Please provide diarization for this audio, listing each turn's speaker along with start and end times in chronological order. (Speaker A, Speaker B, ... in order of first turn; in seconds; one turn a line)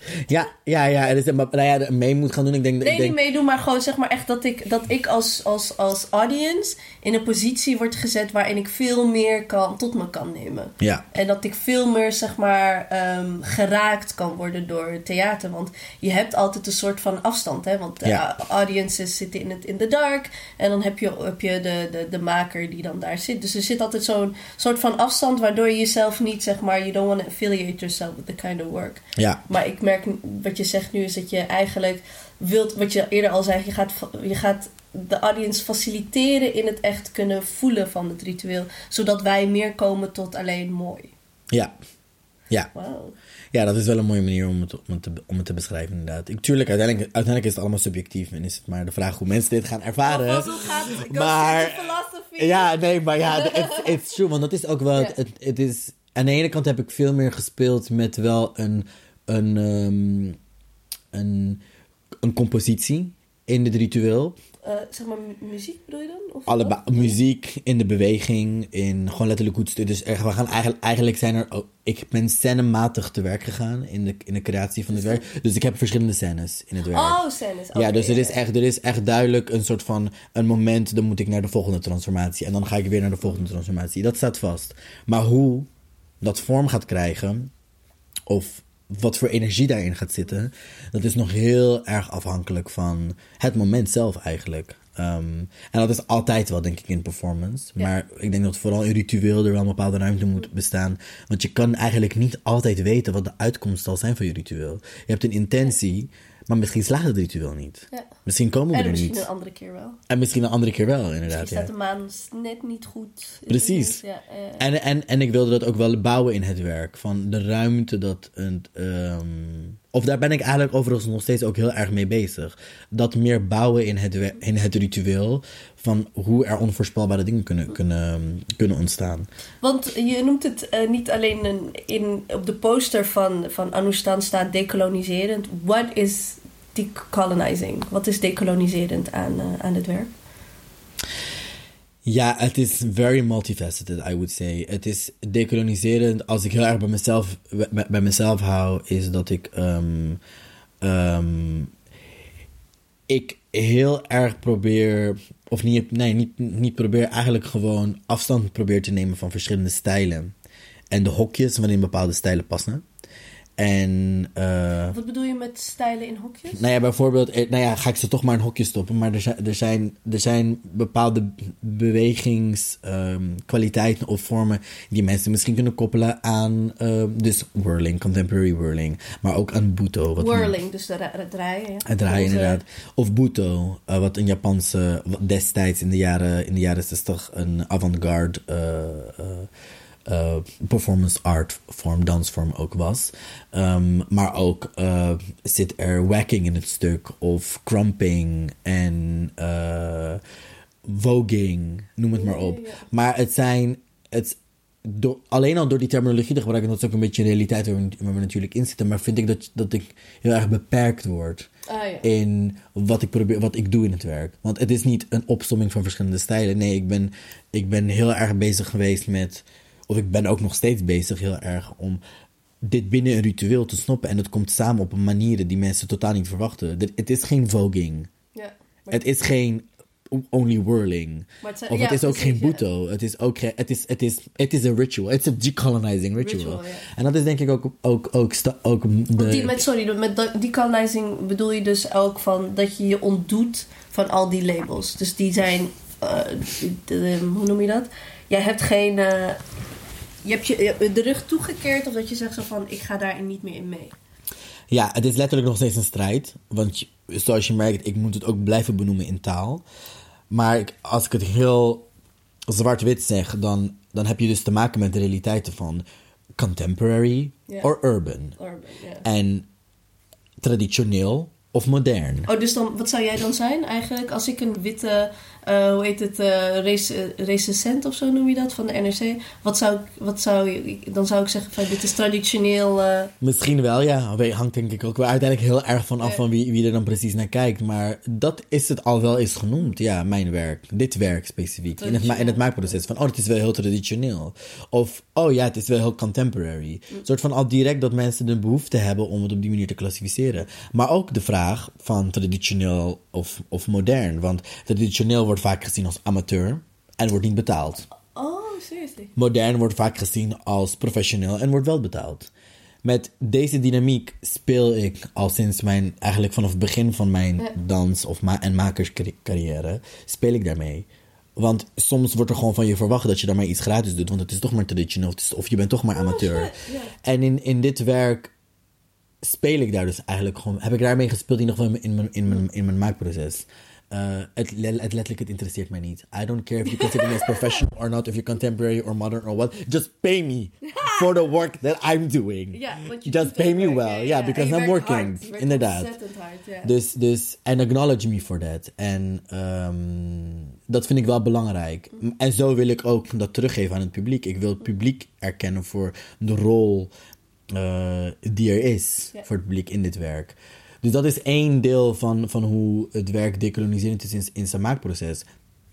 Speaker A: 0.3-3.2
Speaker B: 2.8-41.1
Speaker A: 10.8-11.1
Speaker A: 29.2-29.4
Speaker B: 42.7-43.1
Speaker A: 43.5-60.4
Speaker B: 50.0-52.7
Speaker B: 53.2-54.0
Speaker A: 61.1-61.6
Speaker A: 62.2-64.4
Speaker B: 64.6-67.2
Speaker A: 66.5-77.2
Speaker B: 76.9-78.4
Speaker A: 77.7-85.7
Speaker A: 86.2-87.5
Speaker A: 88.3-109.3
Speaker B: 108.7-110.0
Speaker A: 110.1-111.7
Speaker B: 111.3-114.6
Speaker A: 113.5-114.0
Speaker A: 114.6-129.3
Speaker B: 129.6-140.1
Speaker A: 142.1-150.2
Speaker A: 150.8-151.7
Speaker A: 153.1-160.3
Speaker A: 160.9-162.8
Speaker A: 163.6-165.0
Speaker B: 164.9-166.6
Speaker A: 166.5-180.6
Speaker B: 180.2-182.6
Speaker A: 181.8-189.5
Speaker A: 190.1-200.2
Speaker A: 200.9-211.5
Speaker B: 202.2-202.8
Speaker B: 211.7-212.1
Speaker A: 212.0-222.0
Speaker A: 222.6-228.1
Speaker B: 228.3-229.0
Speaker A: 228.9-239.6
Speaker B: 231.4-232.6
Speaker B: 236.2-236.9
Speaker B: 239.2-249.4
Speaker B: 250.2-253.9
Speaker A: 254.7-259.6
Speaker A: 260.3-261.9
Speaker A: 262.5-265.8
Speaker A: 266.4-268.4
Speaker B: 268.4-269.1
Speaker A: 269.0-269.5
Speaker A: 270.4-272.3
Speaker B: 272.3-283.1
Speaker A: 283.2-307.9
Speaker B: 291.8-292.7
Speaker B: 308.1-309.1
Speaker A: 309.2-312.3
Speaker A: 312.8-328.3
Speaker B: 326.0-326.9
Speaker A: 329.2-345.9
Speaker B: 336.7-337.4
Speaker B: 340.7-341.1
Speaker B: 342.5-346.7
Speaker A: 346.6-356.9
Speaker A: 357.5-365.2